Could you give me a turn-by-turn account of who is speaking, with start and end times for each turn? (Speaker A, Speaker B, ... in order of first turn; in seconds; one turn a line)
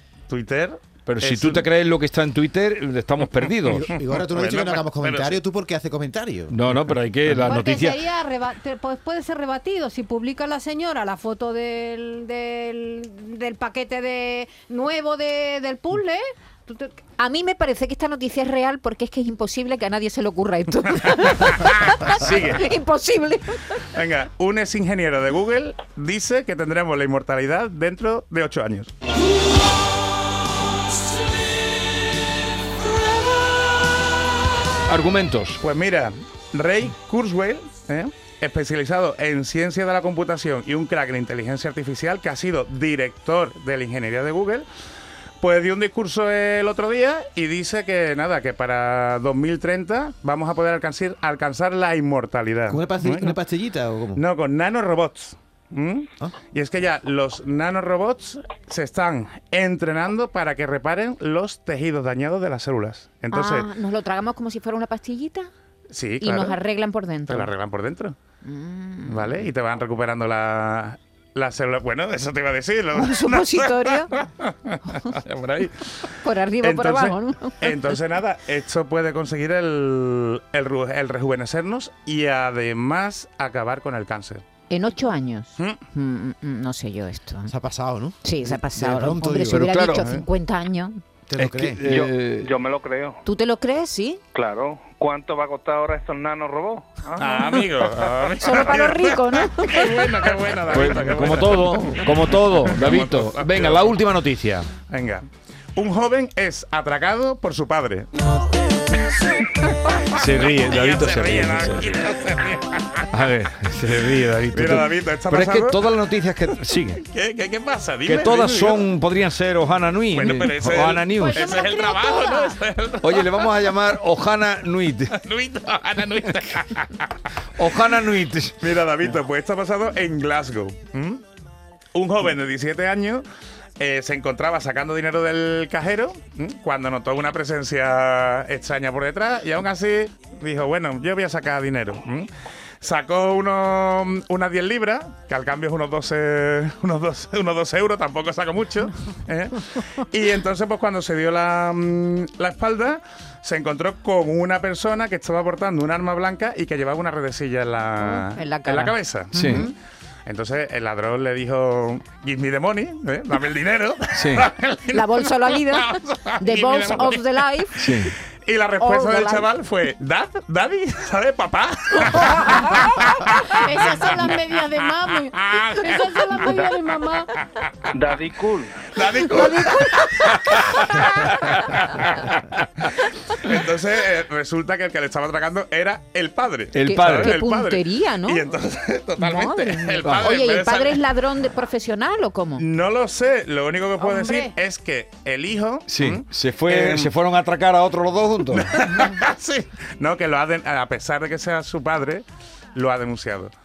Speaker A: 0.3-1.7
Speaker B: 1.1-3.9
Speaker C: 3.6-6.5
Speaker A: 4.0-5.4
Speaker B: 6.5-8.0
Speaker D: 7.4-16.9
Speaker E: 17.2-23.6
Speaker A: 22.2-22.5
Speaker A: 23.9-28.9
Speaker B: 34.9-35.6
Speaker A: 35.6-44.7
Speaker A: 45.4-53.4
Speaker C: 52.7-54.2
Speaker A: 54.1-63.7
Speaker E: 63.3-65.5
Speaker A: 65.9-66.6
Speaker E: 66.2-67.5
Speaker A: 67.3-68.2
Speaker E: 68.4-69.4
Speaker A: 69.1-75.9
Speaker E: 72.9-74.1
Speaker E: 76.2-77.9
Speaker A: 76.6-84.4
Speaker E: 84.7-87.5
Speaker C: 87.5-89.6
Speaker E: 88.2-91.0
Speaker B: 89.5-90.1
Speaker A: 89.9-90.2
Speaker C: 91.3-91.8
Speaker B: 91.4-92.6
Speaker F: 91.9-93.2
Speaker E: 93.2-94.2
Speaker F: 94.3-97.2
Speaker A: 97.1-103.9
Speaker E: 98.4-100.2
Speaker B: 100.7-104.7
Speaker A: 104.9-108.1
Speaker B: 110.1-112.0
Speaker A: 110.2-113.0
Speaker B: 113.1-117.0
Speaker A: 114.5-115.8
Speaker A: 117.0-118.9
Speaker B: 118.0-121.5
Speaker A: 120.1-123.8
Speaker D: 121.1-122.6
Speaker B: 123.0-125.1
Speaker A: 125.1-127.2
Speaker B: 127.6-128.6
Speaker A: 128.6-131.2
Speaker A: 131.9-133.2
Speaker A: 133.8-142.3
Speaker A: 142.8-159.7
Speaker D: 158.0-158.4
Speaker E: 158.4-158.9
Speaker B: 159.3-159.6
Speaker A: 160.2-176.7
Speaker B: 164.1-164.5
Speaker E: 164.9-168.1
Speaker B: 167.8-168.1
Speaker E: 168.8-169.5
Speaker E: 172.5-172.8
Speaker D: 173.5-177.3
Speaker F: 178.1-178.7
Speaker A: 178.9-191.0
Speaker E: 179.3-180.6
Speaker B: 186.7-187.4
Speaker E: 186.8-188.4
Speaker E: 189.2-192.6
Speaker B: 190.0-190.3
Speaker A: 192.6-197.1
Speaker D: 194.0-194.5
Speaker B: 195.9-198.8
Speaker A: 198.5-203.5